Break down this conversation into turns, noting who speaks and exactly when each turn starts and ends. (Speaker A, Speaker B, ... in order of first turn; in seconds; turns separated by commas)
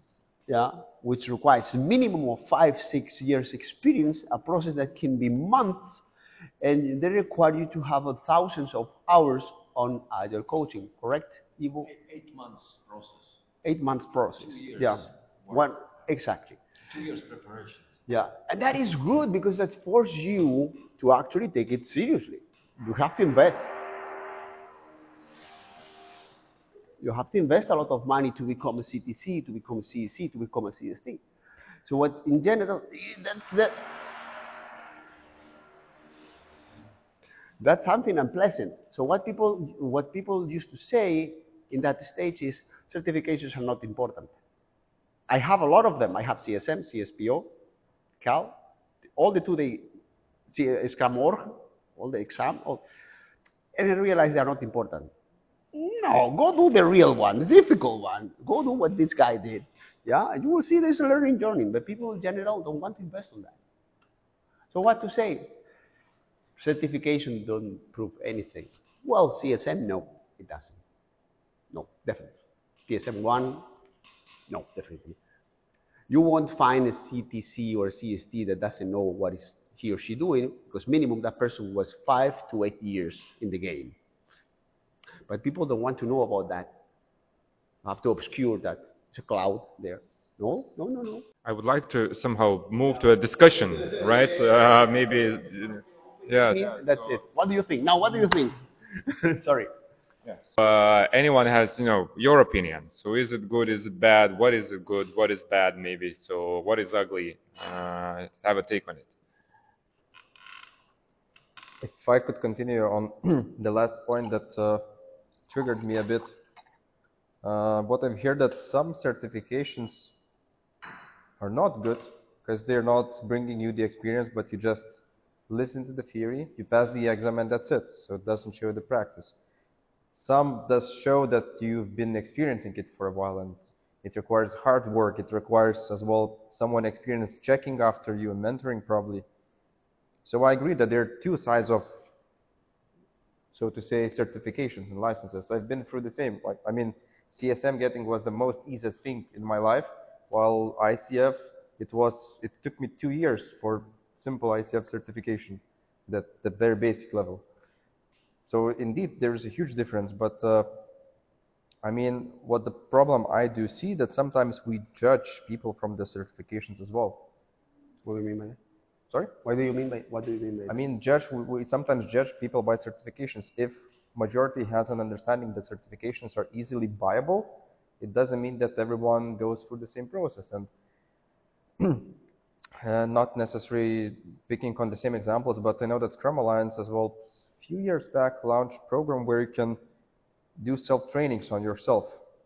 Speaker A: 0.5-6.0, Speaker A: 6.6-11.9, Speaker B: 11.9-13.4, Speaker A: 13.6-16.6, Speaker B: 14.4-15.6, Speaker B: 16.9-17.9, Speaker A: 18.1-23.8, Speaker A: 27.0-31.2, Speaker A: 31.9-34.0, Speaker A: 37.6-44.3, Speaker A: 45.3-47.5, Speaker A: 48.2-48.6, Speaker A: 49.2-49.9, Speaker A: 50.5-52.8, Speaker A: 53.8-55.1, Speaker A: 55.7-63.6, Speaker A: 64.7-65.6, Speaker A: 66.6-70.8, Speaker A: 71.7-73.7, Speaker A: 74.5-75.2, Speaker A: 76.1-84.0, Speaker A: 85.3-86.8, Speaker A: 87.8-91.2, Speaker C: 91.5-97.2, Speaker A: 96.5-99.7, Speaker C: 100.3-109.1, Speaker D: 111.8-114.8, Speaker D: 115.5-116.4, Speaker D: 117.4-120.2, Speaker D: 121.4-129.3, Speaker D: 130.1-139.3, Speaker D: 140.2-141.9, Speaker D: 143.5-157.4, Speaker D: 158.5-160.8, Speaker D: 161.8-167.3, Speaker A: 168.0-168.6, Speaker A: 169.4-170.8, Speaker D: 170.7-180.7, Speaker D: 181.8-182.1, Speaker D: 182.8-189.8, Speaker D: 190.6-192.2